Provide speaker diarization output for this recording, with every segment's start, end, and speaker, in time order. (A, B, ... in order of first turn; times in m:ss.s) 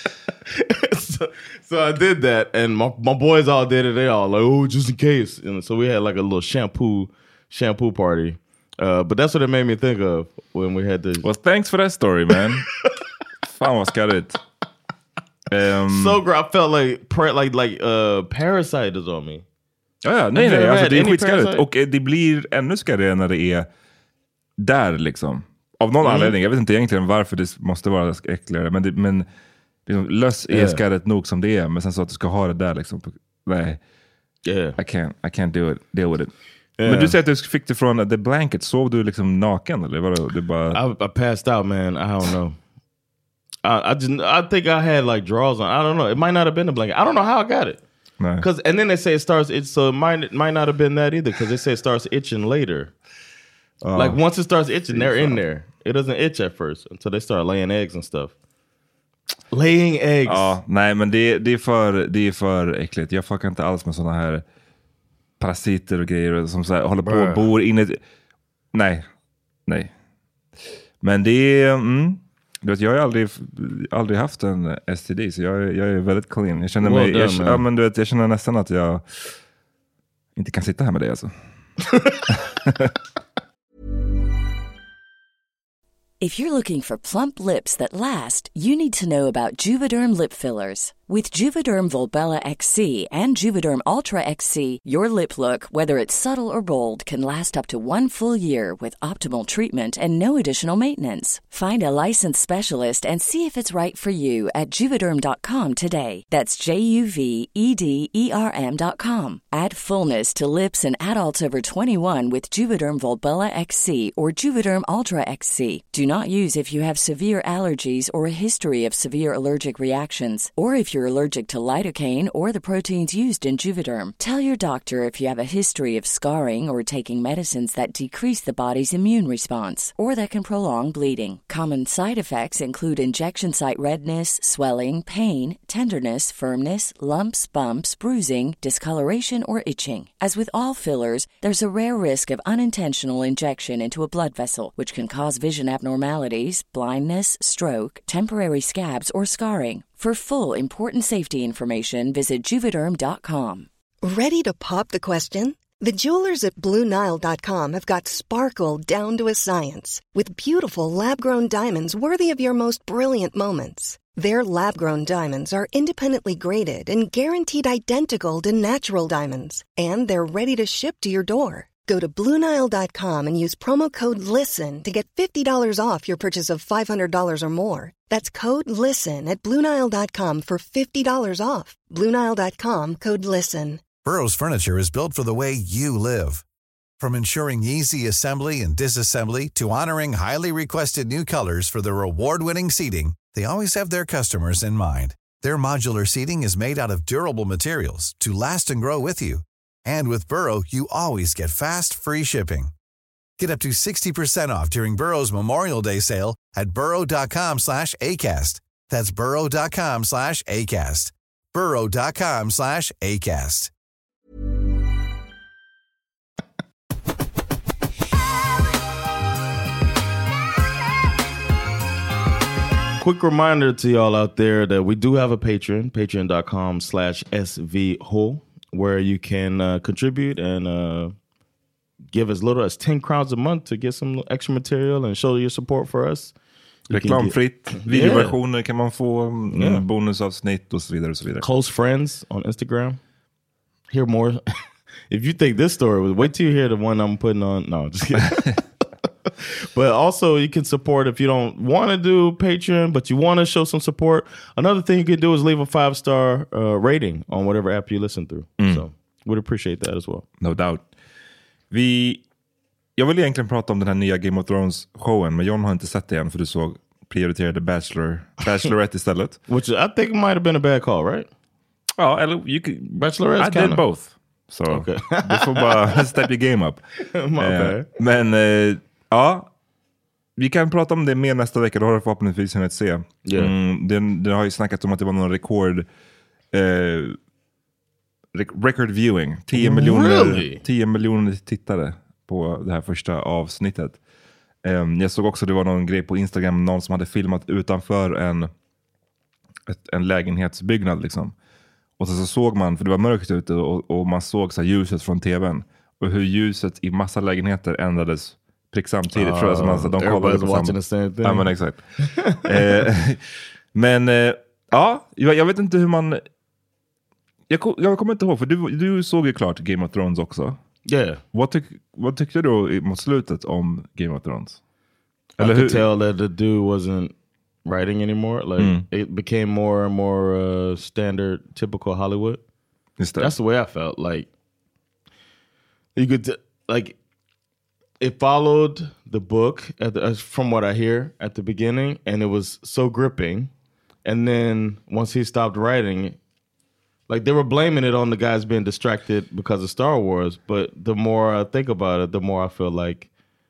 0:00.5-0:11.2 A
0:11.2-0:12.7 B
0:13.4-0:14.4 B
0:15.5-0:16.2 B
0:15.9-0:19.4 A
0:20.0-0:23.7 B
0:20.4-0:21.6 A
0:24.6-0:29.3 B
0:26.0-0:26.4 A
0:29.9-0:33.8 B
0:30.5-0:30.8 A
0:34.4-0:34.8 A
0:34.8-0:40.8 B
0:36.8-0:37.2 A
0:40.7-0:42.6 A
0:43.6-0:47.8 A
0:48.2-0:48.4 B
0:48.4-0:52.9 A
0:53.8-0:54.2 B
0:53.9-0:58.3 A
0:54.9-0:55.4 B
0:59.5-1:00.6 A
1:00.3-1:04.4 B
1:05.4-1:08.0 B
1:07.0-1:07.4 A
1:08.7-1:09.1 B
1:11.0-1:19.4 B
1:16.8-1:17.6 A
1:20.4-1:21.3 B
1:21.9-1:22.2 A
1:22.3-1:22.9 B
1:26.2-2:33.7 C
2:34.0-3:03.8 D
3:04.0-3:06.4 E
3:07.0-3:22.7 E
3:23.4-3:33.7 E
3:43.0-3:51.1 A
3:52.1-3:56.3 A
3:56.9-3:58.4 A
3:56.9-4:01.4 B
3:59.5-3:59.8 A
4:01.4-4:03.0 A
4:03.9-4:04.4 A
4:05.1-4:08.6 A
4:09.7-4:20.2 A
4:18.6-4:18.8 B
4:20.4-4:20.8 B
4:21.7-4:22.2 B
4:23.0-4:29.4 B
4:29.5-4:31.3 A
4:32.0-4:36.8 B
4:33.0-4:33.8 A
4:34.7-4:36.1 A
4:37.1-4:37.9 A
4:37.4-4:39.5 B
4:40.4-4:45.9 B
4:43.2-4:43.5 A
4:46.5-4:47.2 B
4:48.3-4:54.0 B
4:49.6-4:50.6 A
4:54.6-4:58.5 B
4:59.7-5:01.3 B
5:02.0-5:11.8 B
5:09.1-5:11.5 A
5:12.0-5:12.8 A
5:12.4-5:13.2 B
5:13.7-5:16.2 B
5:17.5-5:20.6 B
5:20.9-5:21.2 A
5:21.3-5:24.6 B
5:25.4-5:27.1 A
5:25.4-5:25.8 B
5:27.6-5:32.4 A
5:28.6-5:28.8 B
5:33.0-5:33.3 B
5:33.2-5:34.3 A
5:35.9-5:37.0 A
5:38.0-5:43.5 A
5:44.0-5:46.2 A
5:47.1-5:53.1 A